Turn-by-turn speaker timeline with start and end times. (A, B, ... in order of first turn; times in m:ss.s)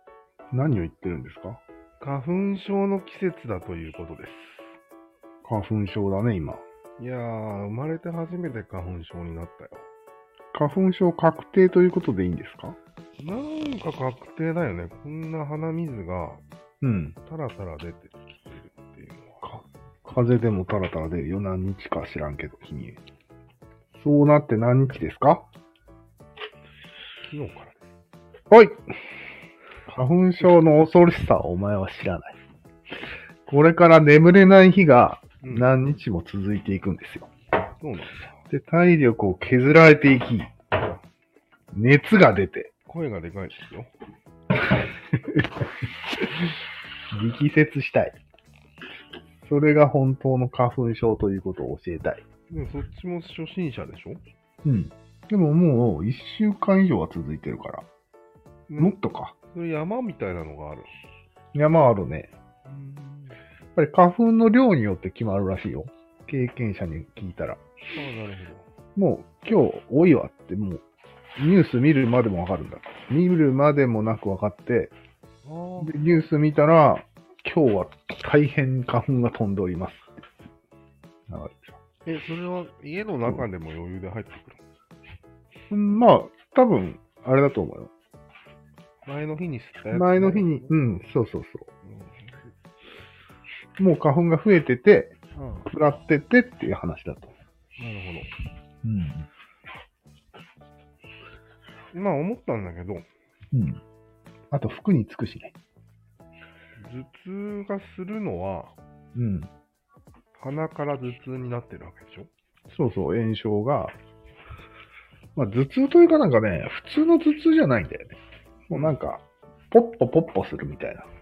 0:00.5-0:01.6 A
0:02.0-0:04.8 B
0:05.4-0:06.6 A
0:07.0-0:09.8 B
0:10.5-0:12.8 A
0:13.2-0:16.4 B
0:16.8-0:17.2 A
0:17.2-0:19.4 B
0:19.4-0:23.0 A
0:23.9-0:25.5 A
0:27.2-0:27.9 B
0:28.5-0:29.0 A
0:29.9-0:32.4 A
0:33.5-0:37.3 A
0:35.4-0:35.8 B
0:37.8-0:38.4 B
0:38.5-0:40.7 A
0:41.7-0:42.7 A
0:42.9-0:43.9 B
0:47.1-0:48.2 A
0:49.4-0:52.2 A
0:52.5-0:54.2 B
0:54.6-0:57.9 A
0:58.7-1:00.9 B
0:58.8-0:59.4 A
1:01.5-1:02.3 A
1:02.7-1:03.4 B
1:03.8-1:07.6 A
1:07.9-1:08.7 B
1:09.0-1:10.8 A
1:11.4-1:14.9 A
1:15.4-1:16.0 B
1:15.8-1:20.1 A
1:21.3-1:21.7 A
1:22.1-1:24.6 B
1:25.7-1:27.9 A
1:29.1-1:30.7 B
1:29.9-1:31.7 A
1:31.8-1:32.4 B
1:33.8-1:37.3 A
1:35.4-1:35.7 B
1:37.8-1:38.3 B
1:38.8-1:39.3 A
1:41.9-1:43.1 B
1:43.5-1:43.8 A
1:44.5-1:45.5 A
1:46.8-1:48.8 B
1:49.2-1:49.5 A
1:50.4-1:52.3 B
1:52.7-1:54.0 A
1:55.4-1:58.2 A
1:58.7-2:01.1 A